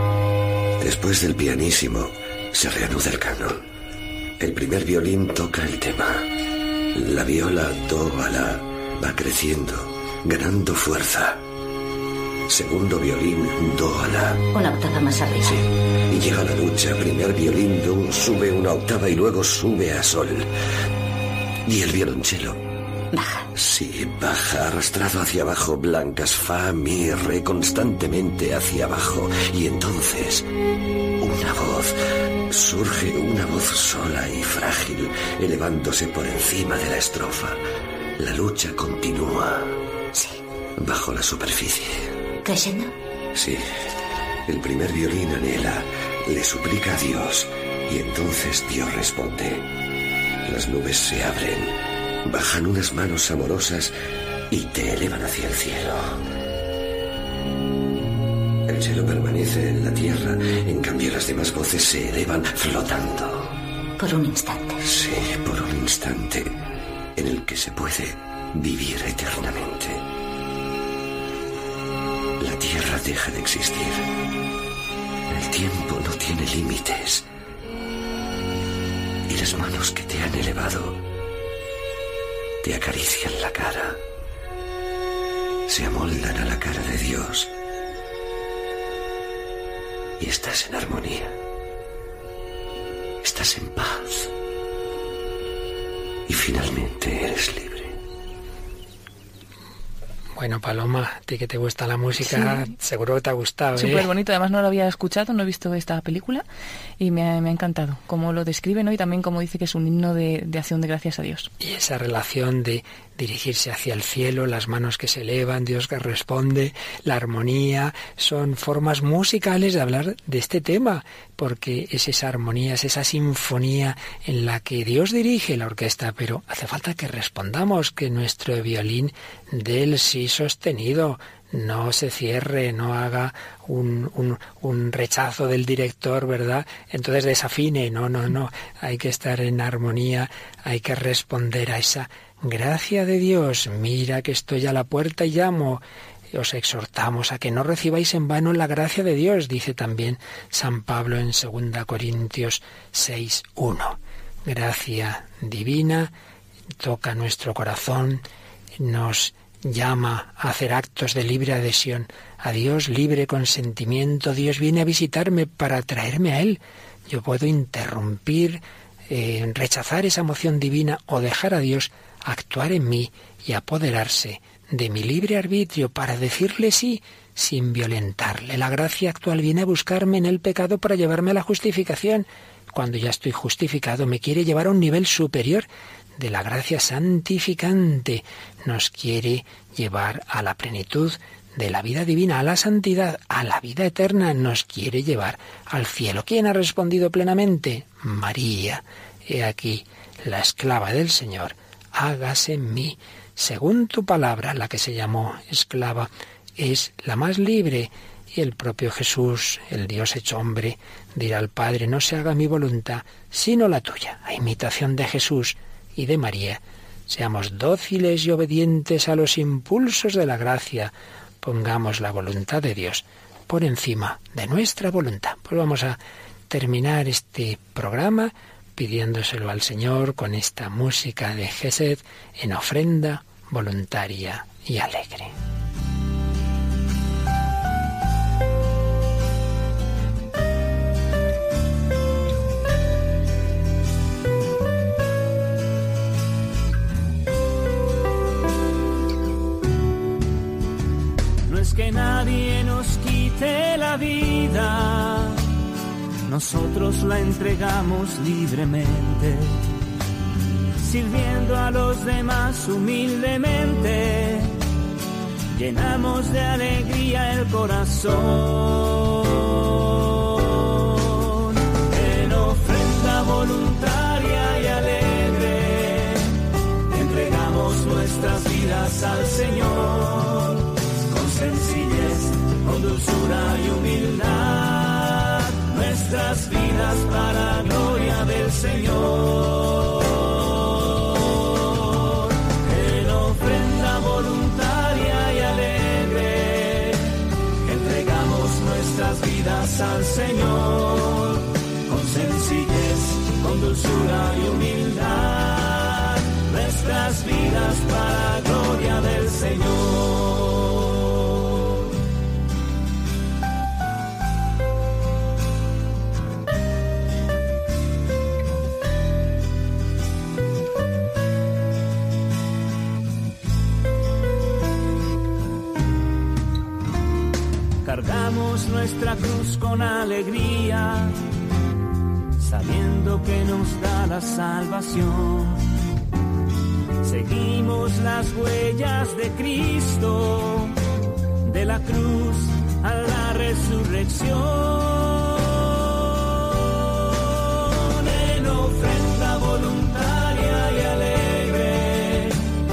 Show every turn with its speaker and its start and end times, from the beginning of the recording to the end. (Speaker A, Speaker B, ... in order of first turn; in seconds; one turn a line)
Speaker A: 0.8-3.6
Speaker A: 4.4-6.3
Speaker A: 7.0-11.4
Speaker A: 12.5-14.4
Speaker B: 14.5-15.6
Speaker A: 16.1-20.5
Speaker A: 21.7-22.6
Speaker B: 23.1-23.4
Speaker A: 23.6-30.4
Speaker A: 31.2-31.9
Speaker A: 32.5-37.6
Speaker A: 38.2-39.7
Speaker A: 40.8-42.1
Speaker B: 42.4-42.9
Speaker A: 43.3-43.9
Speaker A: 44.5-49.7
Speaker A: 50.5-53.9
Speaker A: 54.5-56.2
Speaker A: 58.7-63.5
Speaker B: 64.0-64.8
Speaker A: 64.8-66.5
Speaker A: 67.2-70.0
Speaker A: 72.4-74.1
Speaker A: 75.3-77.2
Speaker A: 79.3-81.0
Speaker A: 82.6-84.0
Speaker A: 85.7-87.5
Speaker A: 90.2-91.3
Speaker A: 93.2-94.3
Speaker A: 96.3-98.0
Speaker C: 100.4-104.1
Speaker D: 102.3-102.6
Speaker D: 103.8-106.5
Speaker D: 107.0-111.5
Speaker C: 111.6-156.1
Speaker C: 156.8-158.2
Speaker C: 158.8-226.0
Speaker C: 226.5-235.3
Speaker E: 251.4-255.4
Speaker E: 256.3-259.6
Speaker E: 260.8-264.6
Speaker E: 265.5-269.5
Speaker E: 270.9-276.3
Speaker E: 276.9-297.1
Speaker E: 297.6-311.7
Speaker E: 327.8-331.2
Speaker E: 332.4-335.6
Speaker E: 337.0-340.8
Speaker E: 341.4-345.8
Speaker E: 347.7-352.4